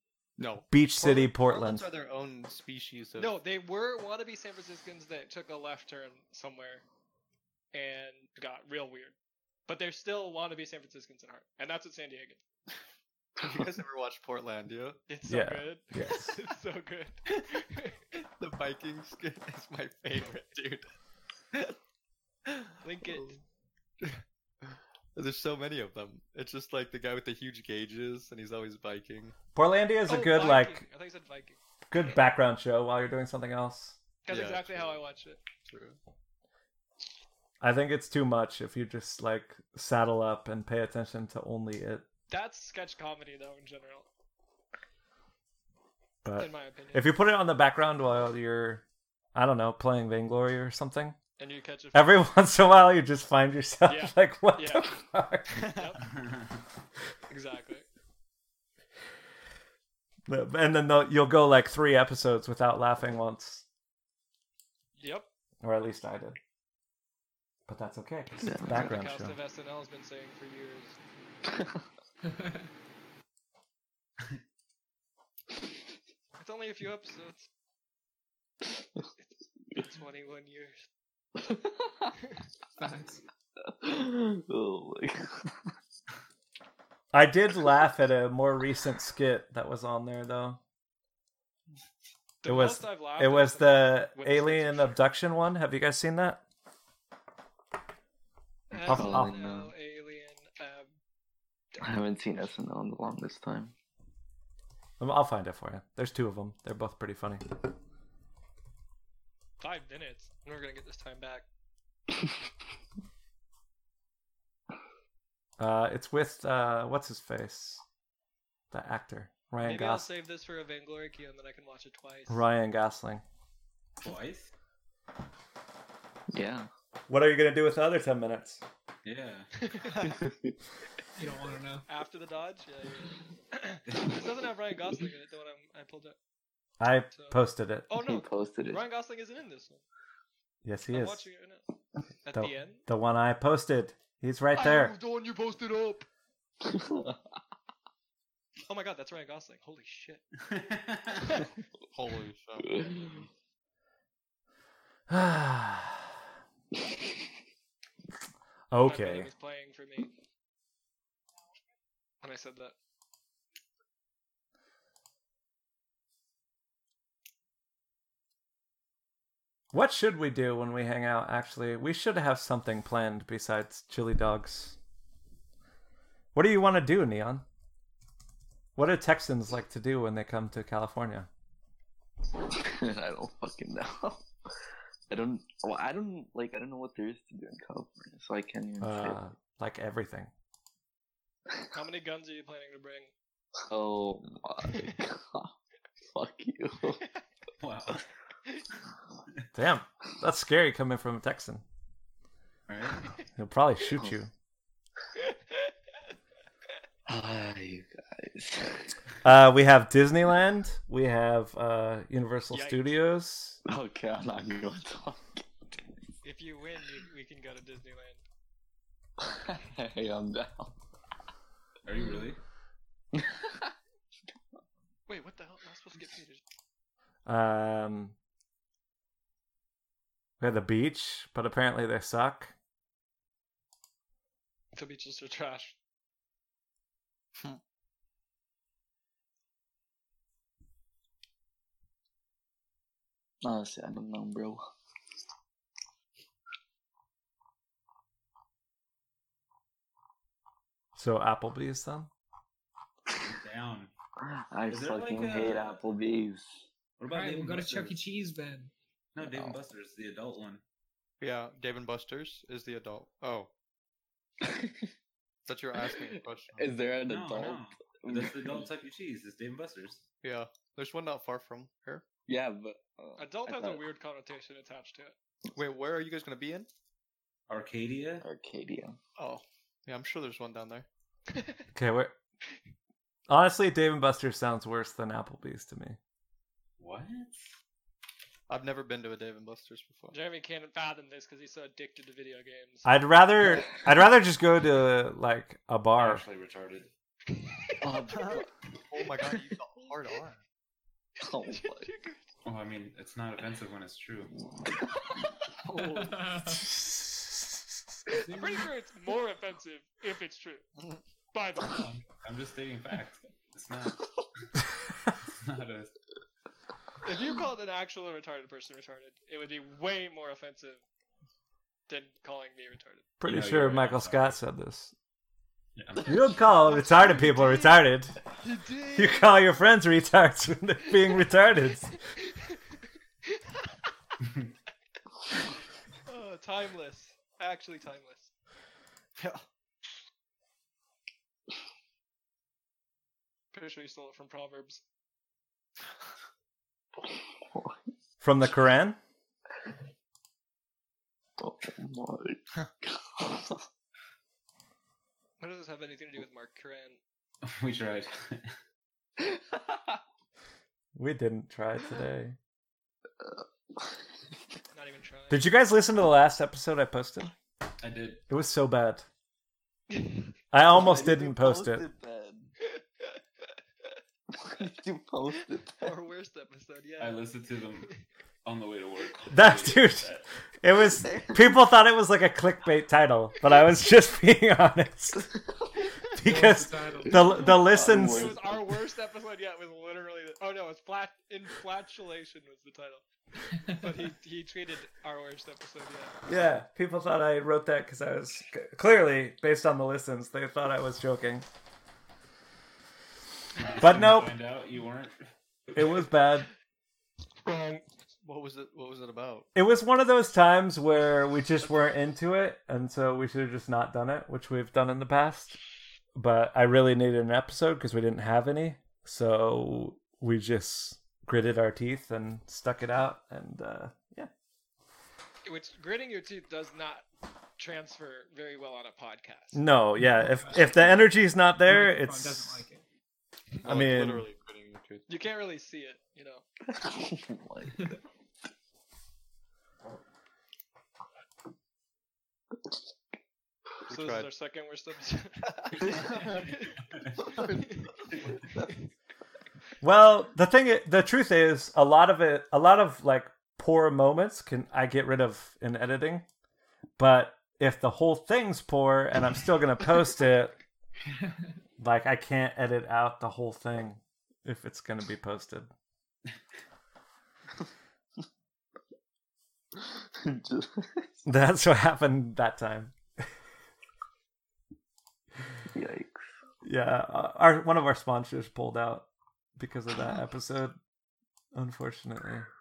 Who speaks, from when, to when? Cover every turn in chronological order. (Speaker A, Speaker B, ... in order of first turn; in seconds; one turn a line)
Speaker A: 0.4-3.3
Speaker B: 0.7-1.9
Speaker C: 3.2-6.8
Speaker C: 7.7-9.2
Speaker C: 9.7-12.4
Speaker A: 13.4-15.0
Speaker C: 15.1-18.0
Speaker B: 15.3-16.4
Speaker A: 18.4-20.9
Speaker A: 22.5-23.3
Speaker C: 22.8-23.4
Speaker A: 25.1-29.3
Speaker B: 29.6-30.9
Speaker C: 30.1-31.6
Speaker B: 31.9-34.0
Speaker C: 34.2-35.4
Speaker A: 34.3-35.0
Speaker A: 35.6-36.0
Speaker B: 37.6-42.0
Speaker C: 42.3-44.1
Speaker B: 46.2-48.8
Speaker C: 46.4-47.1
Speaker B: 49.4-51.2
Speaker C: 51.4-52.2
Speaker B: 51.9-55.7
Speaker C: 53.9-56.0
Speaker D: 56.0-56.6
Speaker C: 57.3-57.9
Speaker B: 60.3-63.6
Speaker C: 65.0-65.3
Speaker B: 65.6-66.4
Speaker B: 67.7-69.4
Speaker E: 68.4-68.9
Speaker C: 68.7-71.0
Speaker E: 71.5-71.8
Speaker F: 72.3-72.7
Speaker C: 76.4-77.5
Speaker C: 79.8-80.9
Speaker E: 81.4-82.1
Speaker F: 82.8-83.2
Speaker E: 83.6-85.7
Speaker B: 87.1-90.6
Speaker C: 92.4-95.0
Speaker B: 92.5-96.4
Speaker C: 98.7-100.9
Speaker B: 98.8-99.4
Speaker E: 98.9-99.7
Speaker E: 101.8-103.7
Speaker B: 105.0-107.5
Speaker C: 109.6-111.5
Speaker B: 115.6-117.8
Speaker B: 118.7-120.1
Speaker C: 119.6-122.4
Speaker B: 122.3-123.2
Speaker D: 124.0-124.5
Speaker E: 126.3-126.7
Speaker B: 127.1-128.6
Speaker D: 129.1-129.5
Speaker C: 129.6-130.2
Speaker E: 130.0-130.5
Speaker F: 131.2-131.9
Speaker C: 131.9-136.2
Speaker D: 133.9-134.2
Speaker B: 136.8-137.9
Speaker C: 137.1-139.8
Speaker E: 137.9-138.8
Speaker B: 140.6-141.3
Speaker C: 140.9-141.6
Speaker C: 142.2-142.8
Speaker B: 142.3-145.0
Speaker C: 144.6-146.1
Speaker E: 146.6-147.2
Speaker C: 148.7-150.2
Speaker D: 150.4-151.4
Speaker C: 151.2-151.5
Speaker A: 151.9-153.2
Speaker E: 152.7-153.1
Speaker B: 155.1-156.2
Speaker B: 158.7-159.3
Speaker C: 158.8-160.1
Speaker C: 162.2-162.7
Speaker B: 169.7-174.8
Speaker B: 176.3-177.4
Speaker B: 178.8-181.3
Speaker E: 182.5-184.3
Speaker E: 185.1-189.2
Speaker B: 188.8-190.3
Speaker C: 191.7-193.1
Speaker E: 193.7-195.5
Speaker C: 194.7-195.0
Speaker E: 196.1-197.0
Speaker D: 197.6-198.1
Speaker B: 199.6-201.6
Speaker D: 202.7-203.1
Speaker B: 203.4-204.3
Speaker C: 205.2-205.7
Speaker E: 207.1-209.0
Speaker B: 209.2-213.6
Speaker C: 212.5-213.0
Speaker E: 213.7-215.5
Speaker C: 216.2-218.2
Speaker E: 219.2-220.7
Speaker D: 221.8-222.4
Speaker E: 223.1-223.7
Speaker C: 225.1-226.4
Speaker B: 227.3-228.2
Speaker B: 230.4-232.5
Speaker C: 234.7-235.8
Speaker E: 243.4-244.6
Speaker B: 250.9-252.1
Speaker D: 253.2-253.9
Speaker E: 254.2-256.5
Speaker D: 254.7-255.8
Speaker D: 257.0-258.0
Speaker F: 257.1-258.7
Speaker D: 259.1-260.6
Speaker E: 259.2-259.6
Speaker A: 261.2-263.5
Speaker E: 264.4-264.9
Speaker A: 265.5-266.7
Speaker E: 265.8-268.7
Speaker D: 267.1-270.0
Speaker A: 270.2-272.1
Speaker E: 272.3-273.8
Speaker C: 273.2-275.1
Speaker A: 275.6-276.7
Speaker D: 277.5-278.3
Speaker E: 278.2-279.0
Speaker A: 279.2-280.9
Speaker B: 281.7-282.1
Speaker B: 283.3-286.0
Speaker D: 286.8-287.5
Speaker A: 288.5-290.2
Speaker C: 290.1-292.9
Speaker B: 292.9-296.2
Speaker D: 296.0-296.9
Speaker C: 297.4-298.4
Speaker E: 297.8-298.5
Speaker A: 298.3-300.4
Speaker E: 301.2-301.9
Speaker C: 301.4-302.2
Speaker D: 302.4-304.3
Speaker F: 305.7-306.7
Speaker F: 308.1-308.7
Speaker C: 308.2-310.6
Speaker C: 311.3-311.9
Speaker D: 311.6-315.9
Speaker C: 317.0-320.8
Speaker C: 321.9-323.1
Speaker B: 323.2-324.9
Speaker D: 323.2-324.4
Speaker D: 325.8-326.4
Speaker B: 326.1-328.2
Speaker C: 326.8-327.7
Speaker C: 328.4-329.3
Speaker B: 329.0-331.9
Speaker C: 332.3-332.6
Speaker C: 333.3-333.7
Speaker D: 334.2-334.5
Speaker C: 336.1-338.3
Speaker A: 339.2-339.5
Speaker C: 343.5-344.8
Speaker E: 347.5-347.8
Speaker B: 348.2-349.0
Speaker E: 351.4-353.6
Speaker C: 355.4-357.0
Speaker D: 357.4-358.6
Speaker E: 359.2-360.0
Speaker B: 360.9-362.4
Speaker E: 363.2-364.0
Speaker C: 364.7-365.5
Speaker B: 365.3-367.3
Speaker D: 367.8-368.2
Speaker B: 368.3-369.1
Speaker C: 369.9-370.2
Speaker B: 370.5-371.9
Speaker E: 370.7-372.5
Speaker E: 374.3-376.0
Speaker C: 375.8-377.3
Speaker D: 377.0-377.9
Speaker D: 378.4-380.3
Speaker B: 379.3-380.1
Speaker B: 380.6-385.3
Speaker E: 381.1-381.4
Speaker E: 385.2-385.6
Speaker B: 386.1-388.4
Speaker F: 386.2-387.6
Speaker E: 387.0-388.8
Speaker C: 387.8-393.0
Speaker F: 393.5-393.8
Speaker C: 393.6-396.2
Speaker B: 396.3-401.5
Speaker D: 403.6-405.2
Speaker B: 403.8-404.4
Speaker B: 405.8-406.5
Speaker C: 407.5-407.8
Speaker A: 408.2-409.5
Speaker B: 409.6-415.6
Speaker B: 416.1-424.3
Speaker C: 425.4-427.1
Speaker C: 427.6-429.6
Speaker B: 429.5-432.6
Speaker F: 430.0-430.9
Speaker F: 431.6-432.8
Speaker A: 433.6-435.1
Speaker B: 433.6-434.3
Speaker C: 435.1-436.4
Speaker E: 436.7-438.0
Speaker A: 443.9-444.3
Speaker C: 443.9-446.8
Speaker A: 446.1-446.4
Speaker C: 447.4-447.9
Speaker A: 447.4-447.8
Speaker B: 449.8-456.2
Speaker B: 457.0-460.6
Speaker B: 461.8-465.7
Speaker E: 469.8-471.2
Speaker B: 471.3-473.0
Speaker E: 475.7-476.1
Speaker B: 476.6-479.1
Speaker B: 479.6-480.8
Speaker B: 481.5-482.5